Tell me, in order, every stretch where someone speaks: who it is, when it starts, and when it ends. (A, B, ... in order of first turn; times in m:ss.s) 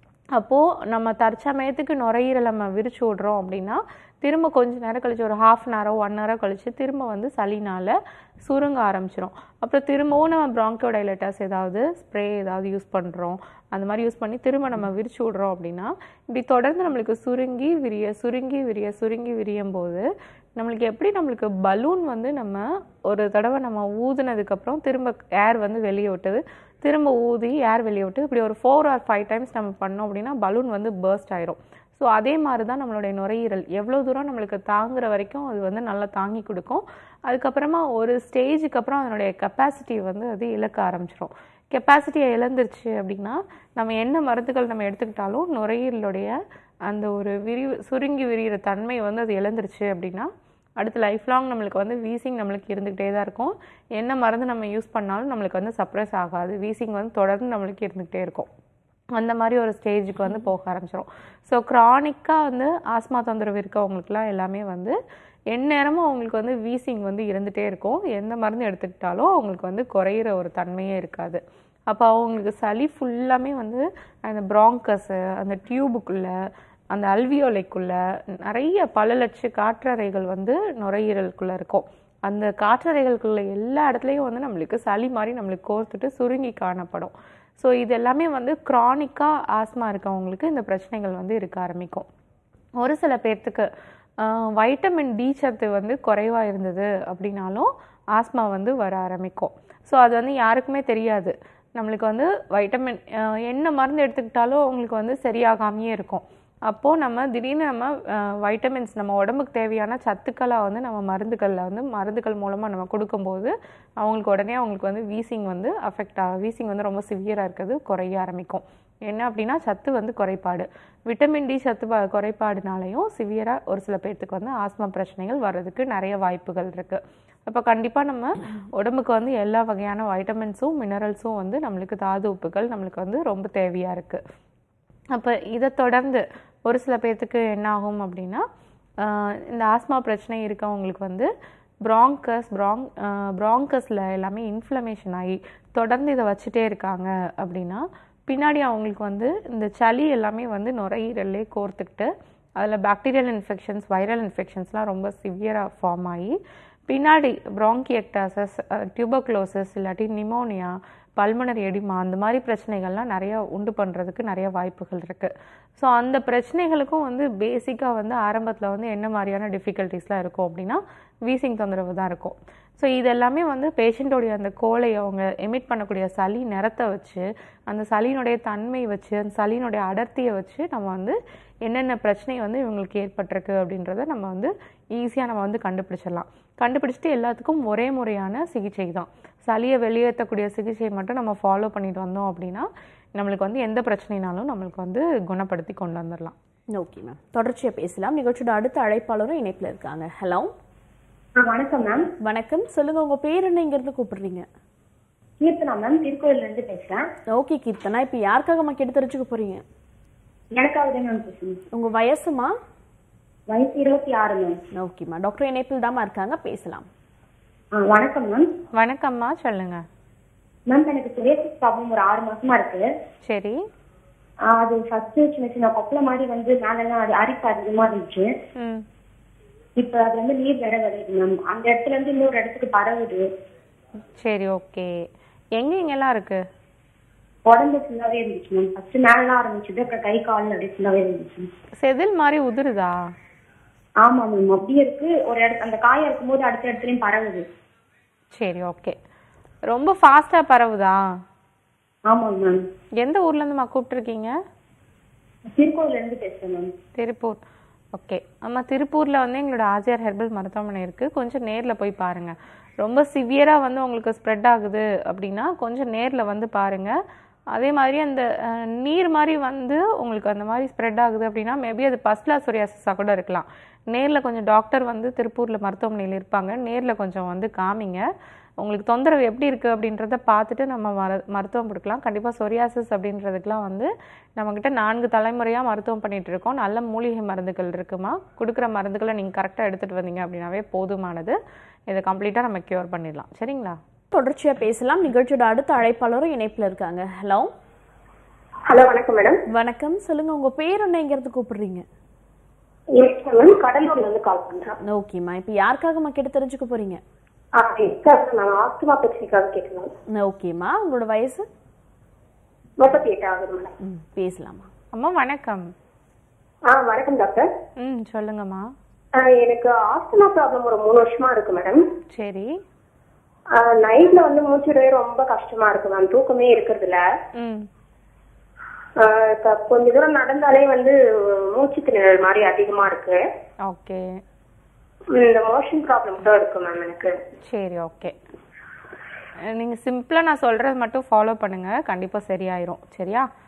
0:00.4-0:46.4 A
0:46.9-0:58.5 A
0:59.2-1:05.0 A
1:05.5-1:16.3 A
1:16.9-1:32.1 A
1:32.8-1:33.7 A
1:34.2-2:14.2 A
2:15.1-2:18.5 A
2:19.0-2:21.3 A
2:21.8-2:36.4 A
2:36.9-3:16.4 A
3:16.8-3:20.5 B
3:21.6-3:22.0 C
3:21.6-3:22.0 D
3:22.2-3:24.5 B
3:25.4-3:27.0 C
3:25.8-3:26.9 D
3:27.3-3:29.6 B
3:30.6-3:31.6 C
3:31.7-3:32.5 B
3:33.5-3:34.5 C
3:34.7-3:36.9 B
3:38.0-3:38.4 C
3:38.8-3:39.8 A
3:40.7-3:42.8 C
3:41.5-3:42.8 D
3:43.2-3:43.6 A
3:44.7-3:48.2 D
3:44.7-3:48.2 C
3:48.6-3:48.8 A
3:49.8-3:53.2 C
3:49.9-3:53.2 D
3:54.2-3:54.9 A
3:55.6-3:56.4 A
3:57.5-4:01.2 D
3:57.6-4:01.4 C
4:01.8-4:03.0 A
4:04.1-4:05.1 C
4:04.3-4:07.4 D
4:06.3-4:07.4 C
4:08.3-4:09.0 A
4:09.7-4:11.0 A
4:12.1-4:12.5 C
4:12.3-4:12.5 D
4:13.0-4:14.3 A
4:15.6-4:16.6 C
4:15.7-4:16.6 D
4:17.0-4:17.4 A
4:17.9-4:26.9 A
4:27.5-4:38.1 A
4:38.6-4:53.8 A
4:54.1-4:57.5 B
4:58.7-4:59.4 D
4:59.5-5:01.8 B
5:03.0-5:04.7 D
5:04.8-5:07.0 B
5:07.6-5:09.9 D
5:10.2-5:11.5 B
5:12.8-5:13.7 D
5:13.8-5:14.7 B
5:14.9-5:15.7 A
5:16.7-5:17.5 D
5:17.8-5:18.7 A
5:19.2-5:21.8 D
5:22.1-5:22.5 A
5:23.6-5:27.0 D
5:27.4-5:27.7 A
5:29.0-5:30.9 D
5:31.5-5:33.2 D
5:33.6-5:34.2 A
5:35.2-5:37.1 D
5:37.5-5:38.2 A
5:39.5-5:43.3 A